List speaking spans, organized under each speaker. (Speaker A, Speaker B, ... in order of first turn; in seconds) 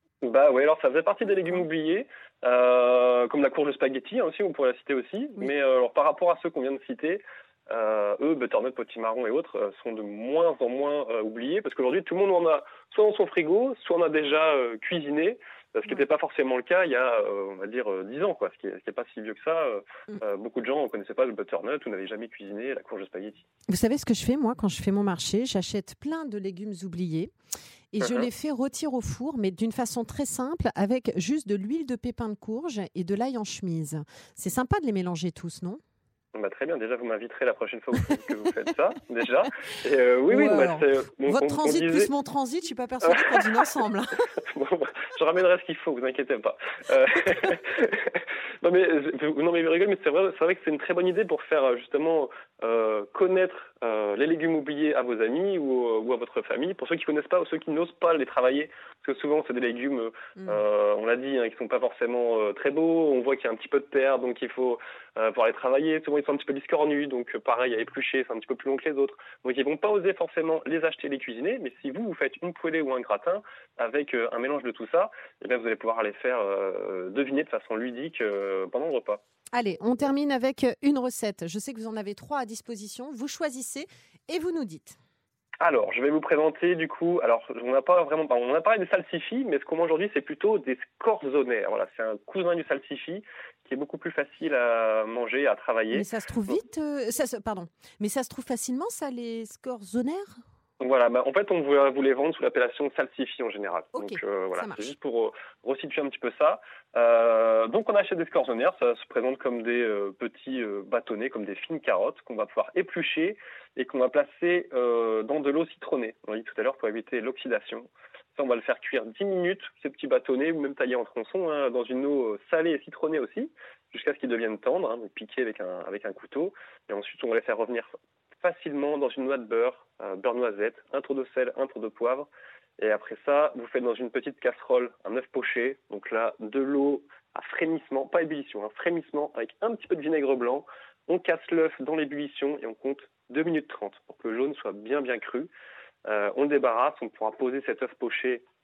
Speaker A: 0.2-23.4, 28.0-28.3, 36.3-42.1, 43.1-43.4, 44.5-79.2, 85.6-96.6, 100.8-127.9, 128.4-132.3, 132.8-145.5, 146.1-148.4
Speaker B: 23.7-27.3, 27.9-35.8, 40.3-44.3, 60.4-60.6, 79.5-85.0, 95.9-100.4, 103.9-104.9